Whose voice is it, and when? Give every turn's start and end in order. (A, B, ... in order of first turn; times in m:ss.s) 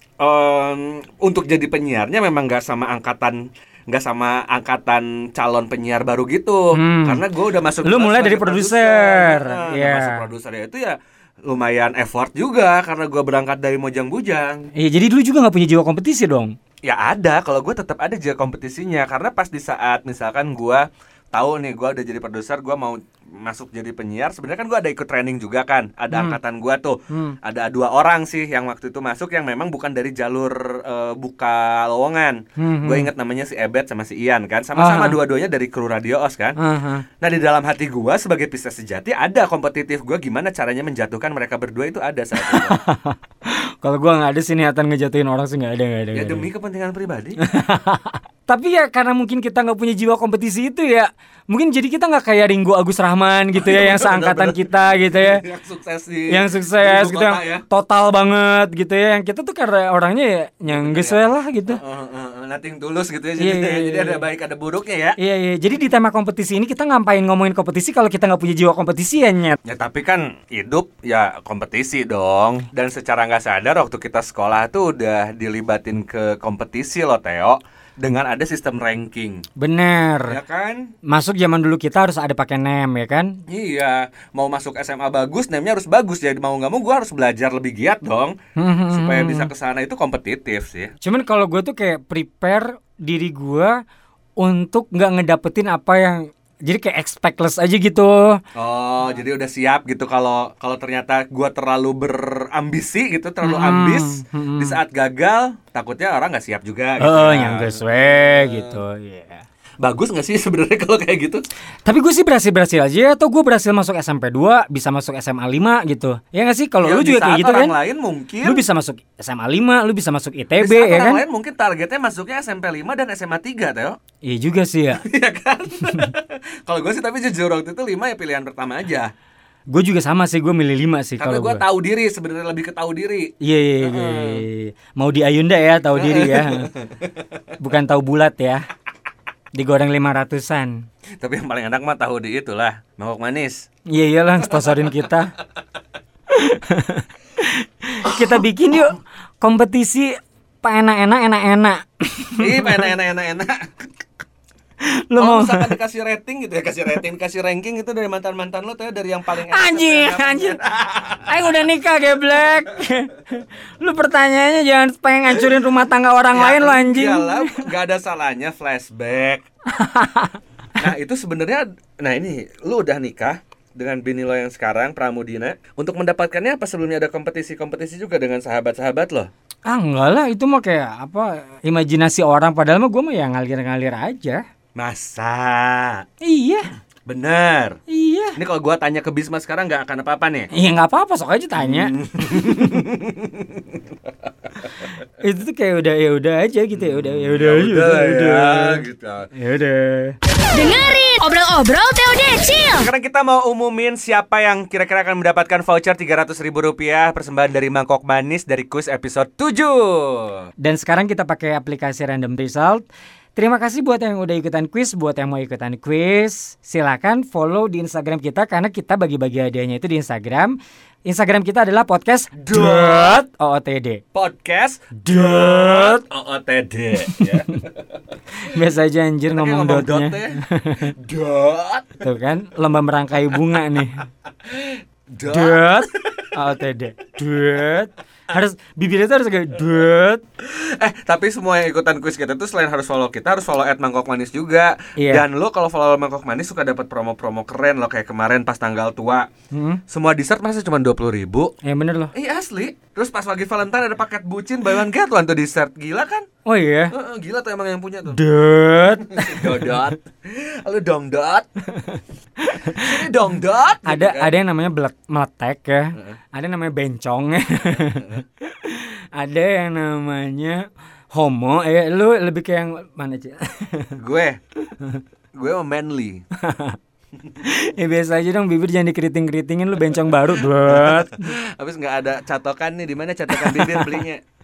0:00.2-0:14.6 A
0:06.7-0:07.2 B
0:07.8-0:10.2 B
0:14.8-0:16.5 B
0:16.9-0:36.6 A
0:26.1-0:26.4 B
0:27.1-0:27.4 B
0:32.6-0:33.1 B
0:34.8-0:35.2 B
0:36.6-0:37.0 B
0:37.2-0:42.8 A
0:42.4-0:46.5 B
0:46.1-0:47.4 A
0:47.4-0:55.4 B
0:53.6-0:57.6 A
0:56.3-1:01.8 B
1:00.7-1:05.2 A
1:03.4-1:04.2 B
1:05.2-1:09.6 B
1:09.6-1:19.4 A
1:19.6-1:20.4 B
1:20.3-1:20.9 A
1:21.1-1:23.4 B
1:23.5-1:28.3 A
1:28.6-1:29.5 B
1:28.9-1:30.9 A
1:31.0-1:33.8 B
1:34.4-1:38.4 B
1:38.5-1:48.8 A
1:43.4-1:44.8 B
1:47.0-1:49.4 B
1:49.8-1:51.4 A
1:51.8-1:57.7 B
1:56.8-1:58.6 A
1:58.4-2:01.2 B
2:00.6-2:04.0 A
2:04.2-2:05.0 B
2:05.0-2:09.1 A
2:09.7-2:11.6 B
2:11.2-2:14.4 A
2:13.4-2:16.7 B
2:16.0-2:17.4 A
2:17.6-2:18.6 B
2:19.5-2:20.8 B
2:21.2-2:23.6 A
2:23.9-2:25.3 B
2:26.3-2:32.9 B
2:32.4-2:33.7 A
2:34.8-2:35.8 B
2:35.2-2:41.4 A
2:39.5-2:40.6 B
2:41.3-2:47.7 B
2:46.3-2:49.4 A
2:49.7-2:50.4 B
2:50.8-2:59.3 A
2:59.7-3:04.4 B
3:04.8-3:06.0 A
3:06.2-3:06.6 B
3:07.1-3:07.8 A
3:07.9-3:08.4 B
3:08.4-3:10.5 A
3:10.5-3:12.8 B
3:11.6-3:13.8 A
3:15.2-3:20.2 B
3:16.8-3:19.3 A
3:20.5-3:22.9 C
3:22.8-3:30.4 A
3:30.6-3:44.0 B
3:42.4-3:43.2 A
3:44.1-3:48.0 A
3:45.0-3:46.0 B
3:47.0-3:47.6 B
3:48.5-3:50.9 B
3:49.3-3:52.0 A
3:52.0-3:54.1 B
3:54.4-3:56.3 A
3:55.3-4:00.2 B
4:00.4-4:09.3 A
4:05.0-4:05.2 B
4:09.5-4:09.8 B
4:09.9-4:11.5 A
4:11.6-4:12.1 B
4:12.1-4:16.2 A
4:16.4-4:16.9 B
4:16.9-4:18.2 A
4:18.1-4:19.9 B
4:19.0-4:21.5 A
4:21.8-4:23.1 B
4:22.7-4:24.3 A
4:23.8-4:33.9 B
4:27.7-4:28.2 A
4:34.0-4:34.4 A
4:35.4-4:36.2 A
4:36.4-4:36.8 B
4:37.4-4:41.3 B
4:40.4-4:44.2 A
4:43.3-4:44.0 B